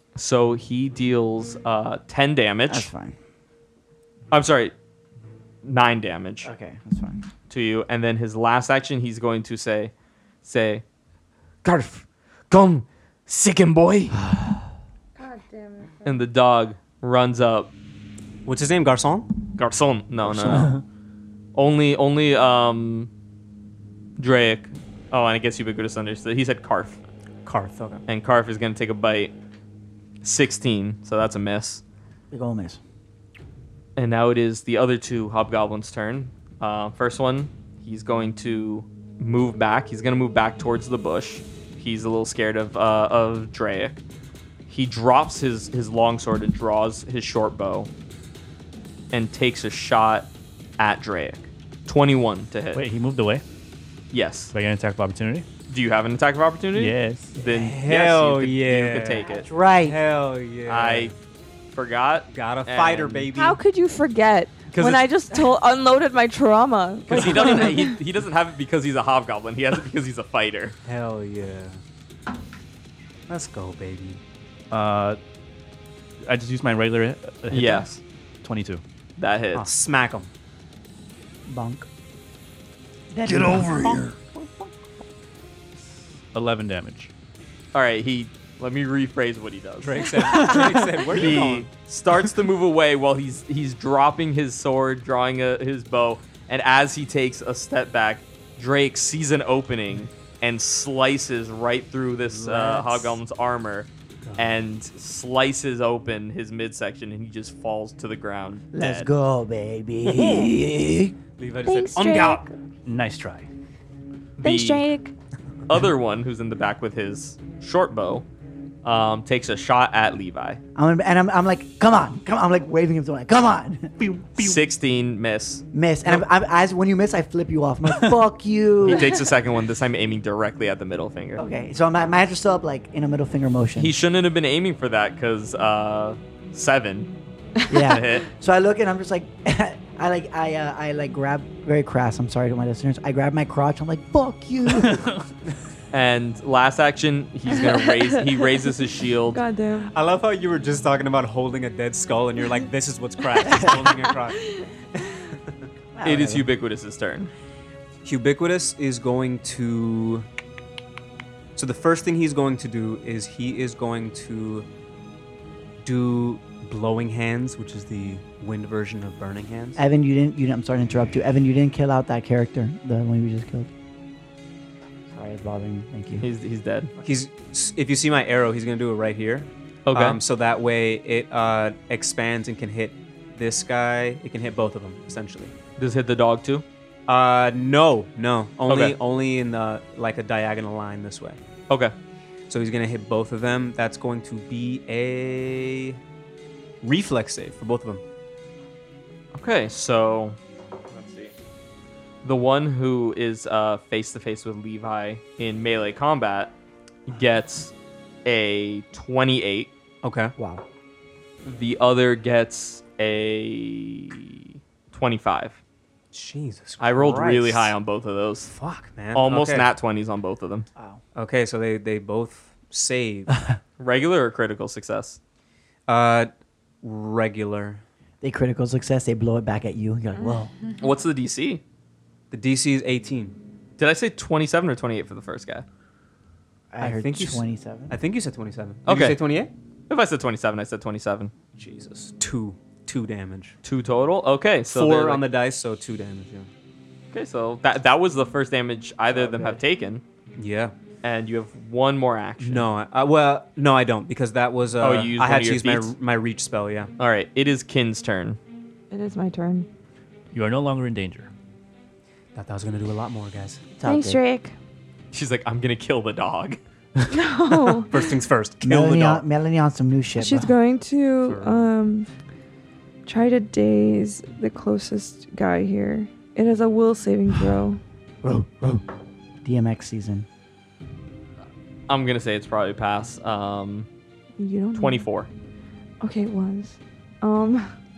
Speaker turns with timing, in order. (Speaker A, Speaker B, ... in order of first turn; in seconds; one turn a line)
Speaker A: 0.1-2.9
Speaker B: 2.7-3.1
Speaker A: 4.3-4.7
Speaker A: 5.6-6.5
Speaker B: 6.4-7.2
Speaker A: 7.5-10.8
Speaker A: 11.6-14.2
Speaker B: 14.1-14.7
Speaker C: 15.2-16.2
Speaker A: 16.0-17.7
Speaker D: 18.4-19.3
Speaker A: 19.6-20.7
Speaker D: 20.2-20.8
Speaker A: 21.5-23.1
Speaker A: 24.2-27.0
Speaker D: 27.4-28.0
Speaker A: 28.1-29.3
Speaker A: 30.2-31.8
Speaker B: 32.3-32.8
Speaker A: 34.0-44.0
Speaker A: 44.7-47.9
Speaker A: 49.1-52.8
Speaker E: 52.7-53.4
Speaker A: 54.1-54.5
Speaker E: 54.5-55.5
Speaker A: 55.7-59.5
Speaker E: 56.7-57.3
Speaker D: 57.4-61.1
Speaker B: 59.2-60.0
Speaker A: 60.7-61.1
Speaker A: 61.7-63.3
Speaker D: 62.3-63.6
Speaker C: 63.3-67.9
Speaker A: 64.7-65.0
Speaker A: 67.1-70.8
Speaker D: 70.8-71.8
Speaker D: 73.3-74.2
Speaker E: 74.7-75.2
Speaker E: 76.2-77.9
Speaker A: 77.5-78.0
Speaker E: 78.4-78.8
Speaker A: 79.2-79.7
Speaker D: 79.5-80.3
Speaker B: 81.5-81.9
Speaker B: 83.1-84.4
Speaker E: 83.3-84.1
Speaker E: 86.3-87.1
Speaker A: 87.7-90.6
Speaker D: 89.8-91.7
Speaker E: 90.2-91.0
Speaker A: 91.1-109.1
Speaker D: 102.6-103.0
Speaker D: 104.2-104.6
Speaker B: 108.7-111.1
Speaker D: 110.1-110.5
Speaker D: 111.4-112.4
Speaker C: 111.6-112.5
Speaker E: 112.8-113.5
Speaker A: 114.4-114.9
Speaker C: 114.4-115.1
Speaker A: 115.7-118.2
Speaker A: 118.8-120.6
Speaker B: 120.7-123.9
Speaker E: 124.0-124.6
Speaker A: 124.4-125.6
Speaker B: 125.7-129.2
Speaker A: 128.8-131.4
Speaker B: 131.4-133.9
Speaker A: 133.8-137.1
Speaker B: 137.7-145.1
Speaker A: 137.7-138.2
Speaker E: 144.8-145.2
Speaker A: 145.9-149.4
Speaker C: 147.5-148.6
Speaker C: 149.3-149.9
Speaker D: 149.9-155.4
Speaker B: 155.9-156.5
Speaker A: 156.0-157.3
Speaker D: 158.0-160.2
Speaker D: 161.6-164.7
Speaker D: 165.8-169.8
Speaker B: 169.8-173.7
Speaker B: 175.1-176.2
Speaker A: 176.2-176.9
Speaker D: 177.0-185.5
Speaker A: 179.8-180.2
Speaker A: 185.8-186.6
Speaker D: 187.1-191.4
Speaker A: 188.7-188.9
Speaker D: 192.5-196.0
Speaker D: 196.8-198.0
Speaker A: 199.3-200.4
Speaker A: 200.9-201.3
Speaker A: 202.2-206.5
Speaker A: 207.1-207.7
Speaker A: 208.2-209.7
Speaker D: 210.0-210.3
Speaker B: 210.4-210.6
Speaker A: 211.4-214.4
Speaker A: 214.9-215.6
Speaker D: 216.1-217.7
Speaker A: 216.8-218.5
Speaker D: 218.5-219.7
Speaker A: 219.1-220.7
Speaker D: 221.1-223.4
Speaker A: 223.8-225.2
Speaker D: 225.9-226.3
Speaker D: 226.8-227.8
Speaker B: 228.2-230.5
Speaker A: 230.8-231.6
Speaker D: 232.3-233.3
Speaker A: 233.8-235.6
Speaker B: 236.7-238.0
Speaker D: 236.8-239.5
Speaker A: 238.8-239.2
Speaker A: 239.9-241.3
Speaker D: 241.6-243.6
Speaker A: 243.6-245.2
Speaker D: 244.7-246.5
Speaker A: 247.1-250.0
Speaker B: 249.1-249.6
Speaker D: 250.4-250.7
Speaker A: 251.0-252.6
Speaker D: 252.4-256.9
Speaker A: 254.8-255.9
Speaker A: 257.0-258.4
Speaker C: 258.9-259.7
Speaker E: 260.3-261.3
Speaker D: 262.3-263.6
Speaker B: 263.8-264.2
Speaker C: 263.8-264.5
Speaker A: 265.1-266.6
Speaker C: 267.1-268.1
Speaker D: 267.8-269.2
Speaker B: 268.6-270.5
Speaker C: 270.2-272.1
Speaker D: 271.2-271.7
Speaker C: 273.1-277.8
Speaker B: 278.2-278.8
Speaker B: 279.4-280.3
Speaker A: 281.9-283.9
Speaker C: 284.4-285.1
Speaker A: 284.7-285.3
Speaker C: 286.0-287.7